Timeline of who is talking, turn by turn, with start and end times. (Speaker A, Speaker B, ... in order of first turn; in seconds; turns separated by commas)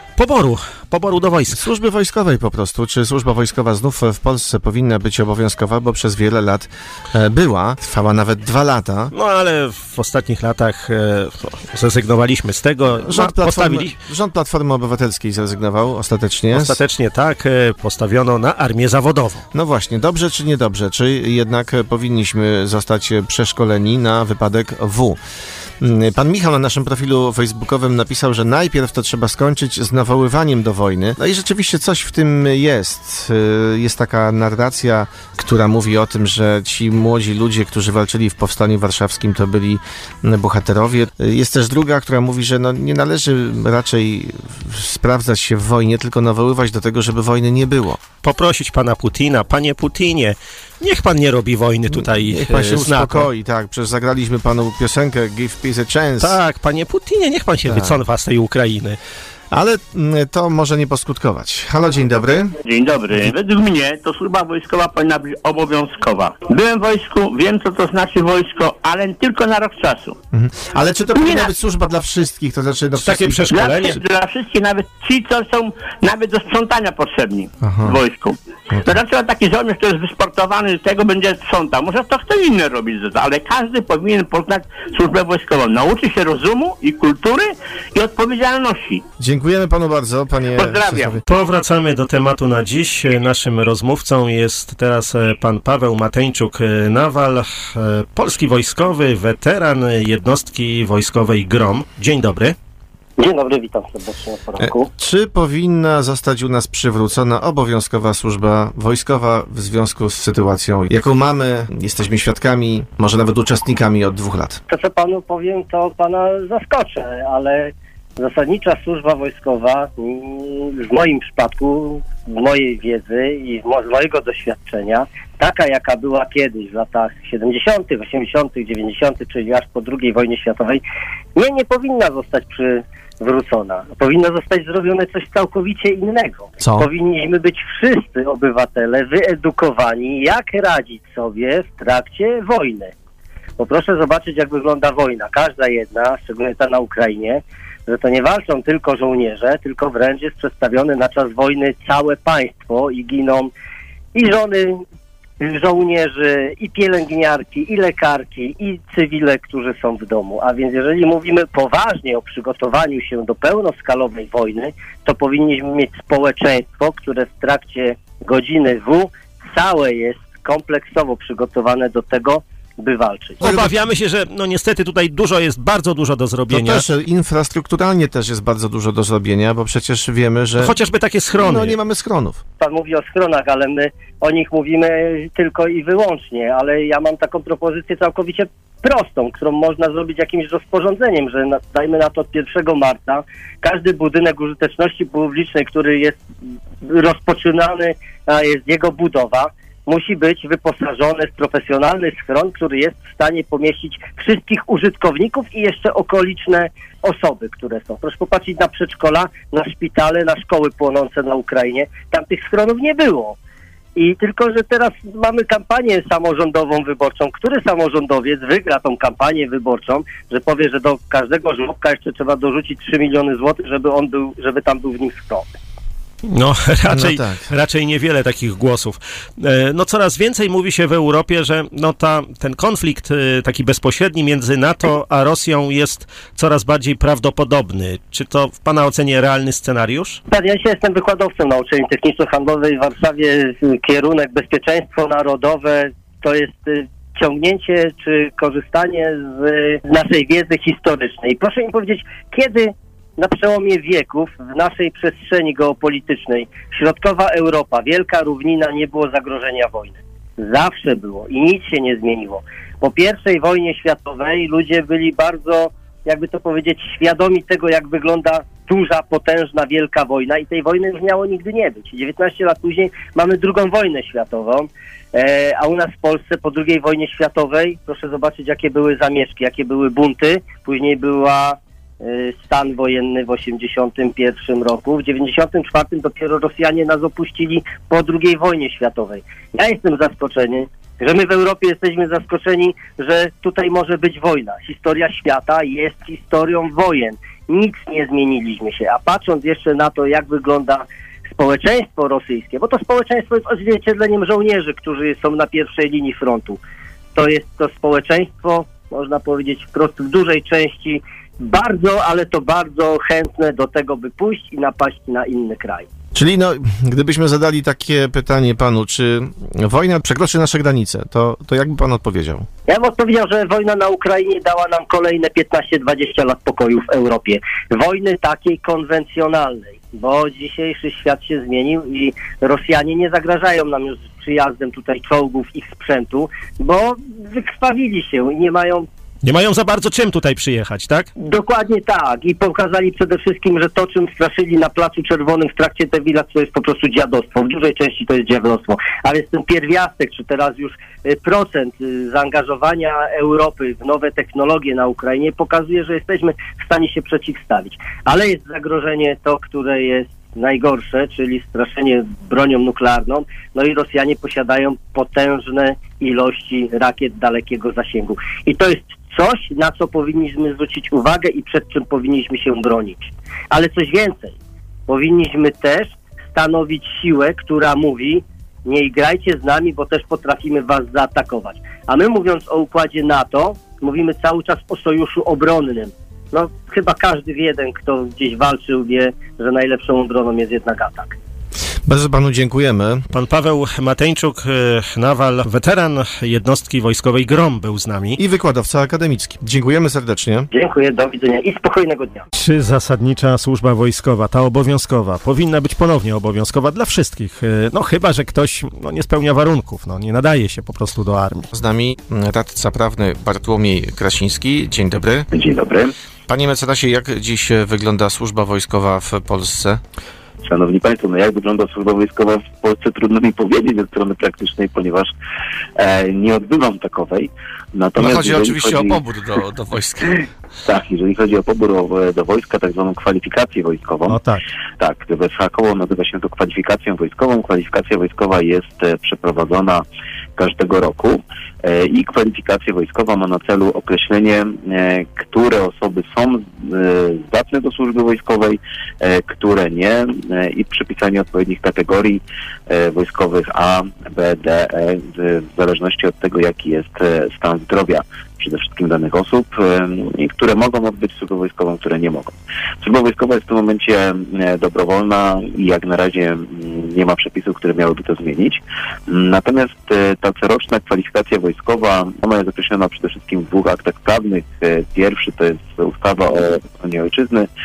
Speaker A: 0.2-1.6, Speaker B: 1.5-9.1, Speaker A: 9.1-14.0, Speaker B: 13.0-16.8, Speaker A: 16.5-19.4, Speaker B: 19.5-25.2, Speaker B: 25.8-48.0, Speaker A: 48.2-53.3, Speaker B: 51.9-56.4, Speaker A: 56.2-59.0, Speaker B: 57.6-58.0, Speaker B: 59.5-62.5, Speaker C: 62.6-70.2, Speaker B: 70.3-73.9, Speaker C: 71.1-71.5, Speaker A: 73.0-74.0, Speaker C: 73.5-89.0, Speaker B: 77.6-78.0, Speaker B: 89.2-91.2, Speaker C: 90.5-91.2, Speaker A: 91.2-102.5, Speaker D: 103.2-104.9, Speaker B: 104.6-114.6, Speaker D: 114.7-130.8, Speaker D: 131.3-142.9, Speaker B: 136.6-136.9, Speaker D: 143.6-153.5, Speaker D: 154.1-154.8, Speaker D: 155.4-173.4, Speaker A: 173.4-176.8, Speaker B: 173.4-173.7, Speaker B: 176.5-180.7, Speaker A: 180.6-181.8, Speaker B: 181.3-182.4, Speaker D: 182.6-196.2, Speaker D: 196.8-213.3, Speaker D: 213.9-225.5, Speaker A: 226.3-240.2, Speaker B: 226.9-227.4, Speaker D: 240.3-306.6, Speaker D: 307.1-315.9, Speaker B: 316.1-322.5, Speaker D: 322.7-338.9, Speaker A: 339.2-341.1, Speaker D: 341.2-374.4, Speaker D: 374.9-391.1, Speaker B: 391.9-393.0, Speaker A: 393.1-398.2, Speaker B: 398.2-400.5, Speaker D: 400.5-402.2, Speaker A: 402.3-411.4, Speaker B: 411.5-415.3, Speaker E: 415.3-415.9, Speaker B: 416.3-419.8, Speaker E: 420.4-425.1, Speaker E: 425.8-429.0, Speaker B: 428.0-430.2, Speaker E: 430.6-434.2, Speaker A: 434.1-434.4, Speaker E: 434.8-439.8, Speaker E: 440.4-477.5